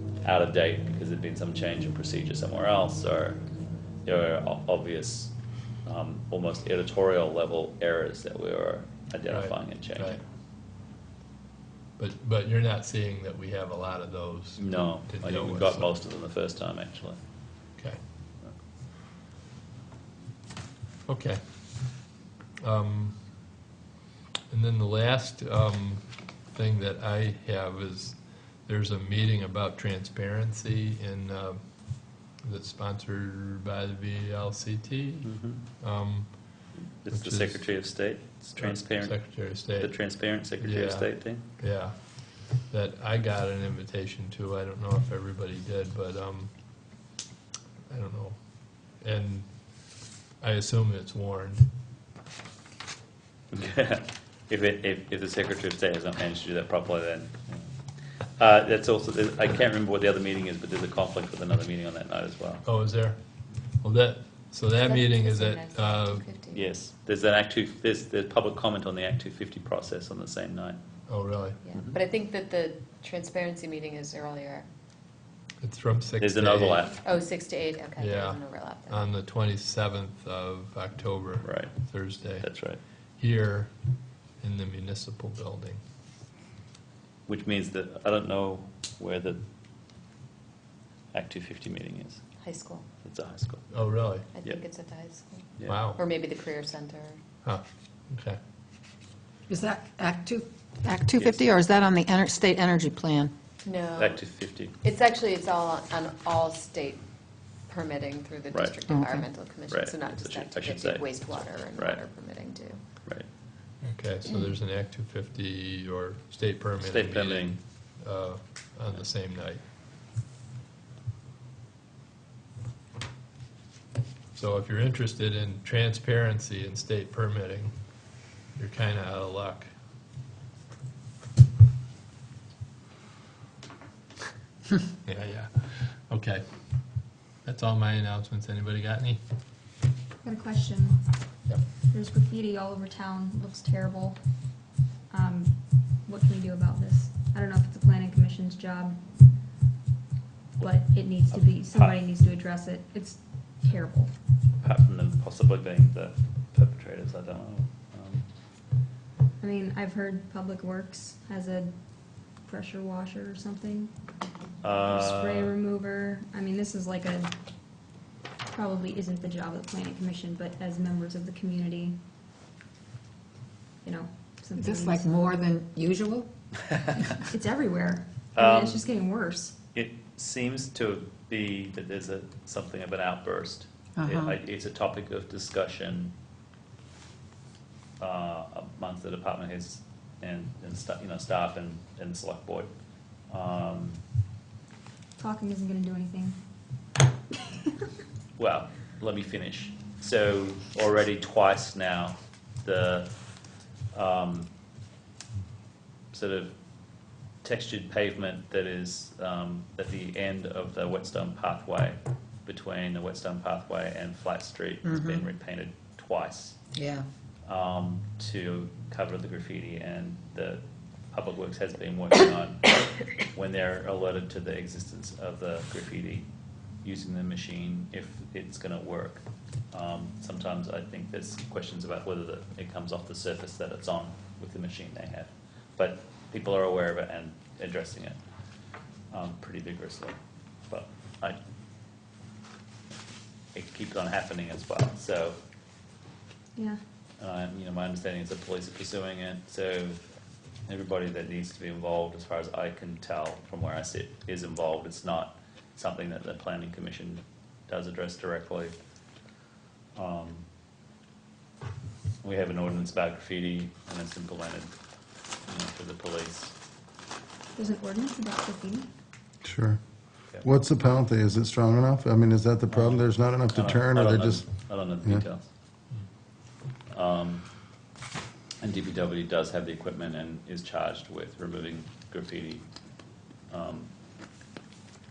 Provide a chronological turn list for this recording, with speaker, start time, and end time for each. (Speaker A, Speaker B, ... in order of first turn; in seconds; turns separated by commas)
Speaker A: 0.2-3.4, Speaker A: 4.0-5.3, Speaker A: 5.9-10.2, Speaker B: 9.3-10.2, Speaker B: 12.0-15.9, Speaker A: 14.6-17.2, Speaker B: 21.1-22.1, Speaker B: 22.6-23.5, Speaker B: 24.5-47.0, Speaker A: 35.2-35.6, Speaker A: 37.0-41.4, Speaker B: 47.9-51.7, Speaker A: 53.5-57.7, Speaker A: 58.4-62.6, Speaker B: 62.6-63.2, Speaker B: 63.8-66.2, Speaker C: 64.8-66.7, Speaker A: 66.5-70.8, Speaker B: 71.1-71.6, Speaker C: 71.7-74.7, Speaker B: 75.6-76.9, Speaker A: 76.2-77.0, Speaker C: 77.0-79.0, Speaker B: 78.0-82.5, Speaker A: 81.4-81.8, Speaker A: 82.4-82.8, Speaker B: 83.2-83.7, Speaker B: 84.4-85.8, Speaker A: 87.3-89.4, Speaker A: 91.1-92.2, Speaker C: 92.4-92.9, Speaker A: 93.0-93.7, Speaker B: 93.7-94.3, Speaker C: 94.3-97.2, Speaker B: 95.7-96.0, Speaker B: 97.4-98.4, Speaker D: 99.5-103.3, Speaker A: 101.2-101.5, Speaker C: 103.6-104.2, Speaker A: 104.0-104.8, Speaker C: 104.8-107.0, Speaker C: 107.7-112.8, Speaker D: 108.9-109.2, Speaker A: 109.7-112.0, Speaker B: 113.8-119.6, Speaker A: 116.8-117.6, Speaker B: 124.3-127.7, Speaker B: 128.6-129.7, Speaker B: 135.1-136.4, Speaker B: 137.4-139.2, Speaker E: 140.2-141.1, Speaker E: 141.9-144.2, Speaker E: 145.1-149.0, Speaker E: 150.6-154.1, Speaker A: 151.3-152.1, Speaker A: 154.6-158.3, Speaker E: 159.4-163.9, Speaker A: 164.6-165.6, Speaker E: 164.8-167.3, Speaker E: 168.5-172.0, Speaker E: 173.8-175.1, Speaker D: 174.6-176.3, Speaker E: 177.3-179.6, Speaker A: 178.3-178.9, Speaker A: 179.8-186.1, Speaker D: 184.0-184.3, Speaker A: 188.0-192.7, Speaker A: 193.3-194.0, Speaker E: 195.2-196.4, Speaker A: 198.4-203.1, Speaker A: 203.9-204.5, Speaker A: 206.1-206.5, Speaker A: 207.4-216.6, Speaker D: 216.8-217.1, Speaker A: 217.4-220.6, Speaker A: 221.1-226.3, Speaker A: 226.8-238.2, Speaker A: 239.1-240.2, Speaker A: 240.7-241.4, Speaker A: 243.5-245.4, Speaker A: 247.2-250.0, Speaker A: 250.7-258.8, Speaker A: 259.9-260.4, Speaker A: 262.2-264.7, Speaker A: 265.5-266.6, Speaker E: 267.6-268.9, Speaker F: 269.4-269.8, Speaker F: 270.4-274.4, Speaker A: 272.7-275.5, Speaker A: 276.9-277.4, Speaker A: 278.6-282.6, Speaker A: 283.5-283.9